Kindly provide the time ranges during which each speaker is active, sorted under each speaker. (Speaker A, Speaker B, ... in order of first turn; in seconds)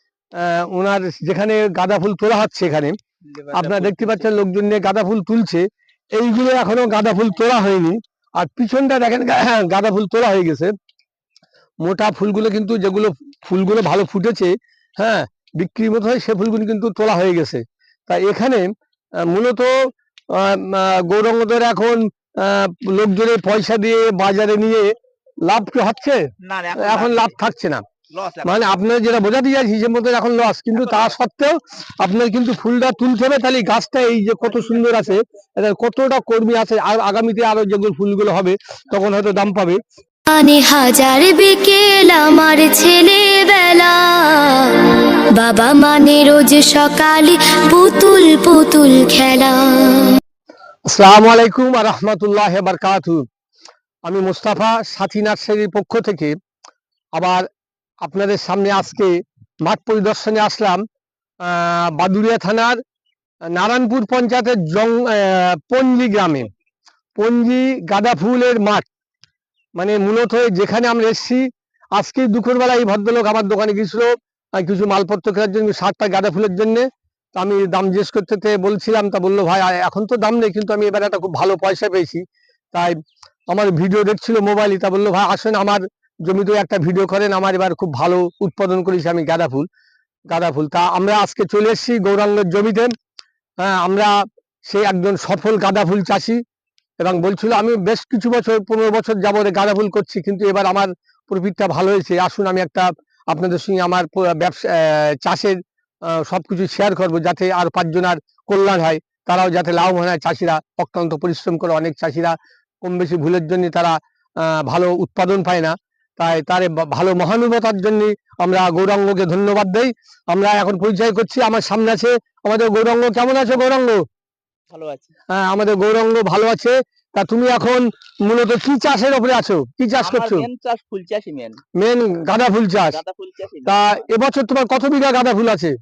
Speaker A: 0.3-2.9, 3.5-10.7, 11.8-18.6, 19.3-19.7, 20.3-24.9, 25.4-26.2, 26.8-27.8, 28.4-39.8, 50.9-53.2, 54.0-56.3, 57.1-57.5, 58.0-59.1, 59.6-60.8, 61.4-62.8, 63.5-66.5, 67.2-68.8, 69.8-71.4, 72.0-82.2, 83.5-89.7, 90.3-92.9, 93.6-94.1, 94.7-96.4, 97.0-105.6, 106.1-124.0, 125.3-130.5, 131.8-133.0, 133.7-135.7
Speaker B: 3.2-4.3, 26.4-27.4, 28.1-28.7, 30.7-31.1, 34.4-35.1, 124.7-125.1, 130.0-131.6, 132.8-133.8
Speaker C: 40.3-50.2